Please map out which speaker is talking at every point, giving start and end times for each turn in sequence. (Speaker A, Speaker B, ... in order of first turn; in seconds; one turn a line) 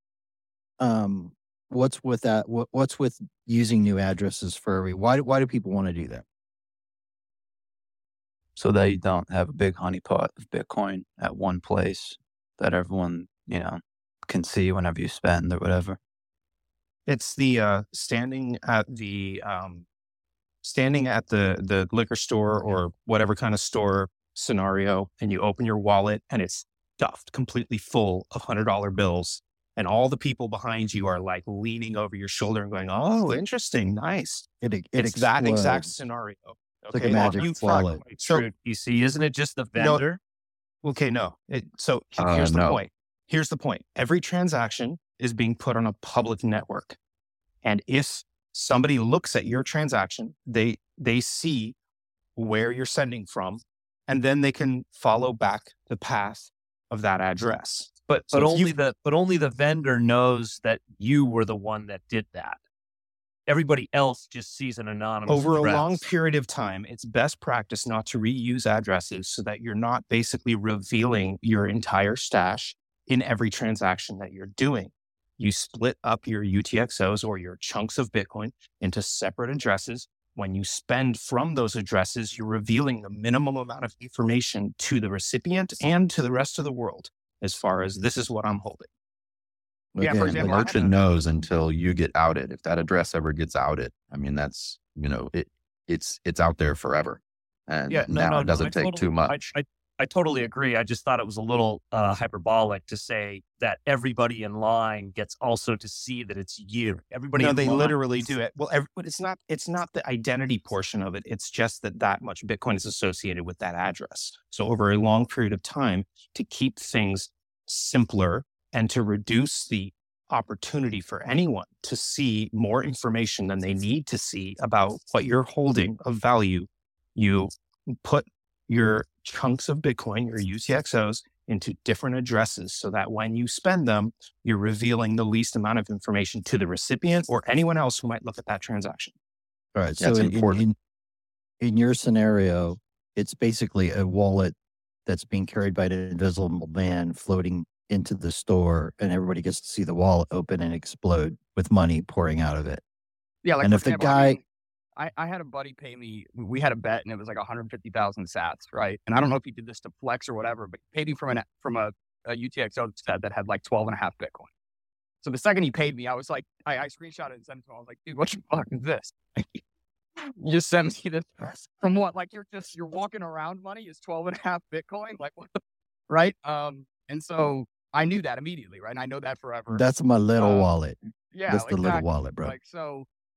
Speaker A: 0.8-6.2
Speaker B: 8.6-16.0
Speaker C: 17.1-19.9
Speaker C: 20.6-38.5
Speaker A: 34.6-35.9
Speaker A: 36.9-38.0
Speaker D: 37.0-40.2
Speaker C: 39.8-40.0
Speaker C: 40.8-47.0
Speaker E: 42.2-42.8
Speaker C: 47.6-51.8
Speaker C: 52.4-58.8
Speaker D: 58.1-62.6
Speaker D: 63.5-66.1
Speaker C: 65.3-88.9
Speaker A: 90.0-90.6
Speaker F: 90.0-90.9
Speaker E: 90.0-99.3
Speaker D: 90.2-90.6
Speaker D: 97.9-108.3
Speaker C: 107.4-139.2
Speaker A: 139.8-140.8
Speaker E: 140.0-140.6
Speaker A: 141.6-144.6
Speaker A: 145.1-152.8
Speaker F: 153.4-154.4
Speaker A: 153.6-154.4
Speaker F: 155.0-164.5
Speaker F: 165.2-169.6
Speaker F: 170.2-179.8
Speaker A: 179.7-182.6
Speaker F: 180.4-180.7
Speaker F: 181.3-183.1